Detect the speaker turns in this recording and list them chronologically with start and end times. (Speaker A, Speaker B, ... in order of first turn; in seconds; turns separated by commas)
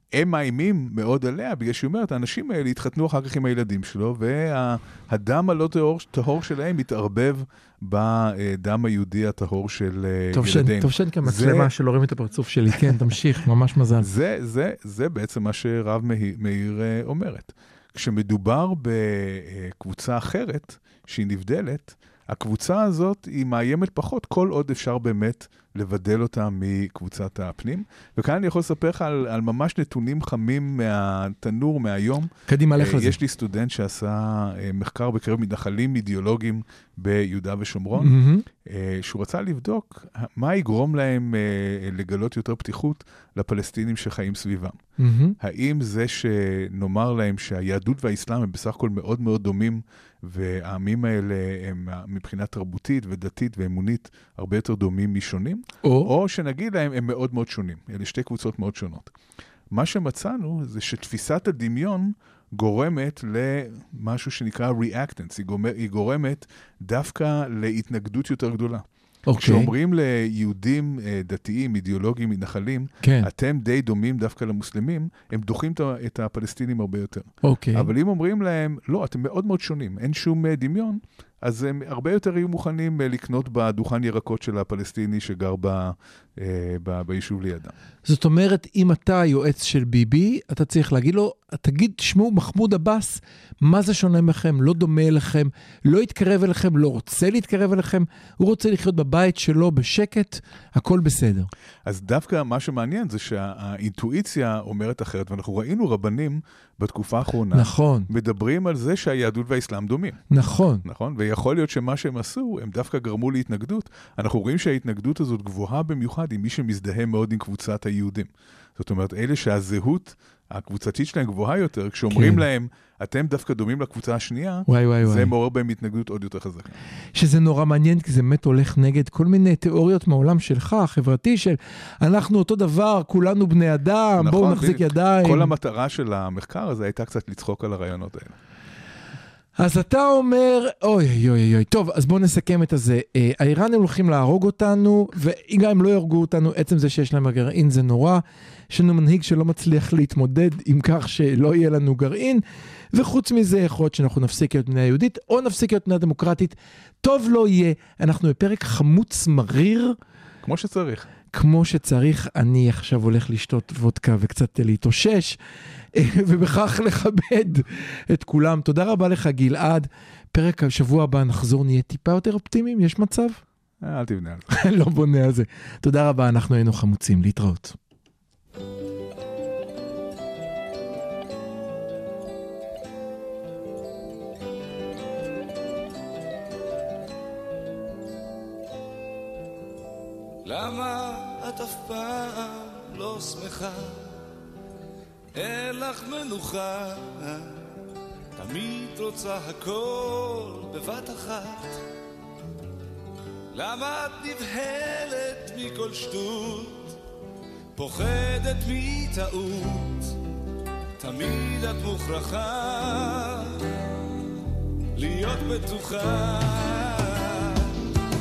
Speaker A: 0.1-11.7, Speaker B: 10.3-14.1, Speaker A: 14.0-44.8, Speaker B: 32.5-33.2, Speaker B: 38.0-38.5, Speaker B: 45.0-45.4, Speaker A: 45.4-59.1, Speaker B: 55.8-56.1, Speaker A: 59.7-68.8, Speaker B: 69.3-69.7, Speaker A: 69.4-87.7, Speaker B: 73.0-73.3, Speaker B: 77.4-77.9, Speaker B: 88.0-101.5, Speaker A: 101.8-110.2, Speaker B: 107.5-108.1, Speaker B: 110.3-110.8, Speaker A: 110.8-126.8, Speaker B: 122.1-122.4, Speaker B: 124.7-125.3, Speaker B: 127.1-135.5, Speaker A: 134.2-138.3, Speaker B: 139.6-159.9, Speaker A: 160.4-161.1, Speaker B: 161.3-165.4, Speaker B: 165.9-173.4, Speaker A: 173.8-174.5, Speaker B: 174.5-177.8, Speaker C: 190.4-194.2, Speaker C: 195.3-197.6, Speaker C: 198.3-201.8, Speaker C: 203.5-207.0, Speaker C: 207.7-210.2, Speaker C: 211.0-213.6, Speaker C: 214.9-217.7